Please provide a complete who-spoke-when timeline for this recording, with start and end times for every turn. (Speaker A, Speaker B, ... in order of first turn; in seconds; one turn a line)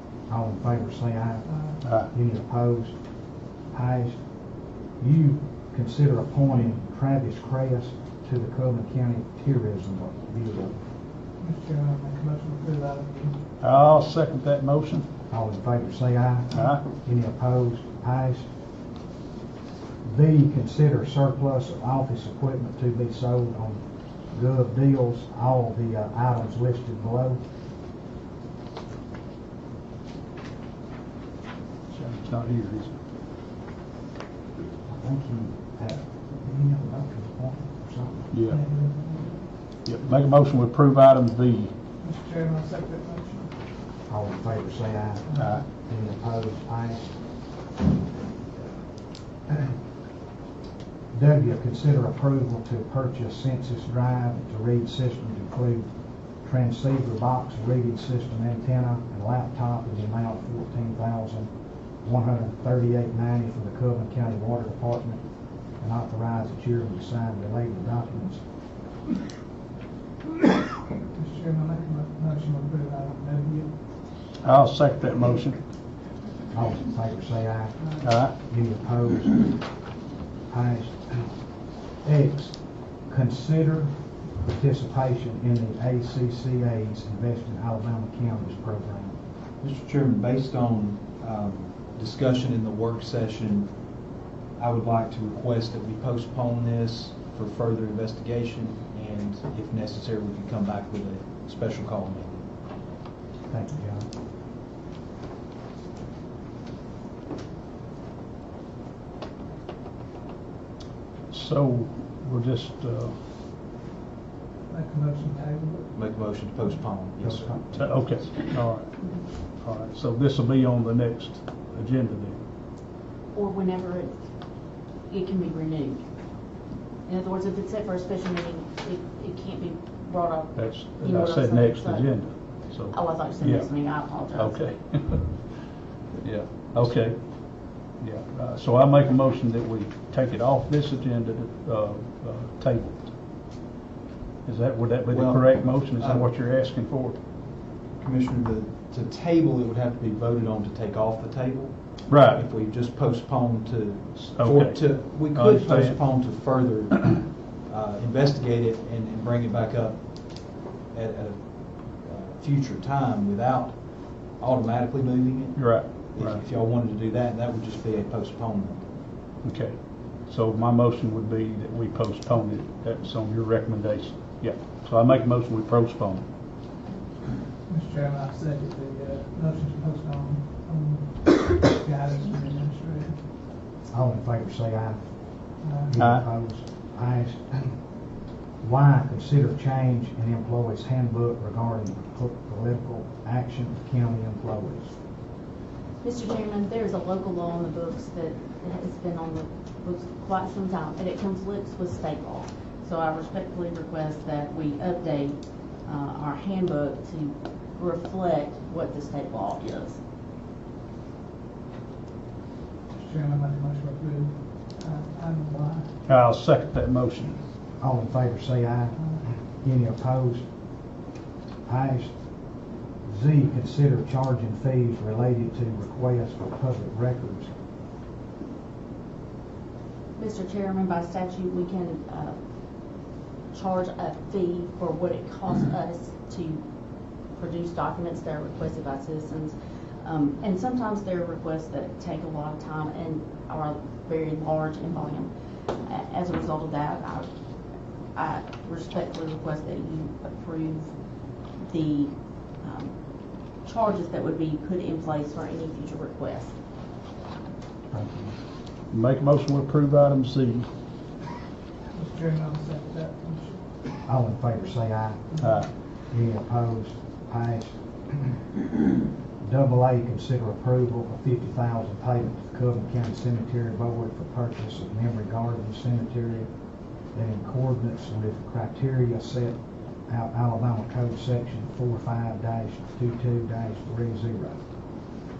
Speaker A: 0.3-1.4
Speaker B: 1.4-1.8
Speaker A: 2.1-2.9
Speaker A: 3.7-4.2
Speaker A: 5.0-10.8
Speaker B: 11.4-13.4
Speaker C: 13.6-15.1
Speaker A: 15.3-18.4
Speaker C: 16.5-16.8
Speaker A: 20.0-27.4
Speaker C: 31.9-33.0
Speaker A: 34.9-38.3
Speaker C: 38.3-38.6
Speaker B: 38.5-39.4
Speaker C: 39.8-41.7
Speaker B: 42.0-43.5
Speaker A: 44.1-47.1
Speaker A: 51.1-55.9
Speaker A: 56.4-61.5
Speaker A: 62.0-65.2
Speaker A: 65.8-68.4
Speaker B: 71.1-73.7
Speaker C: 74.4-75.6
Speaker A: 76.5-79.6
Speaker C: 78.0-78.3
Speaker A: 80.5-81.3
Speaker A: 82.0-89.2
Speaker D: 89.6-93.7
Speaker D: 94.6-102.5
Speaker A: 103.5-104.0
Speaker C: 111.3-113.1
Speaker B: 114.7-115.9
Speaker D: 115.9-117.6
Speaker A: 117.2-117.8
Speaker C: 117.7-122.4
Speaker E: 123.3-124.2
Speaker E: 125.1-126.0
Speaker E: 127.0-132.4
Speaker C: 130.6-135.6
Speaker E: 132.9-134.7
Speaker C: 136.2-143.1
Speaker C: 144.4-147.2
Speaker D: 145.1-146.2
Speaker D: 147.9-168.9
Speaker C: 152.1-152.4
Speaker C: 154.2-156.0
Speaker C: 165.5-166.4
Speaker C: 169.4-176.3
Speaker B: 177.7-183.2
Speaker A: 183.9-185.0
Speaker A: 185.6-187.8
Speaker B: 185.6-186.0
Speaker C: 186.0-186.2
Speaker A: 188.6-194.9
Speaker E: 196.0-210.0
Speaker B: 212.9-215.9
Speaker C: 216.1-217.4
Speaker A: 217.8-220.4
Speaker A: 221.7-222.1
Speaker A: 223.0-227.5
Speaker E: 230.2-232.4
Speaker E: 233.5-236.6
Speaker E: 237.3-245.3
Speaker E: 245.8-247.3
Speaker E: 248.1-250.9
Speaker E: 251.7-252.9
Speaker E: 253.6-256.5
Speaker A: 257.9-258.3
Speaker C: 258.9-260.7
Speaker B: 261.9-263.6
Speaker A: 264.1-268.4
Speaker C: 265.4-265.7
Speaker A: 269.4-276.5
Speaker A: 277.1-284.6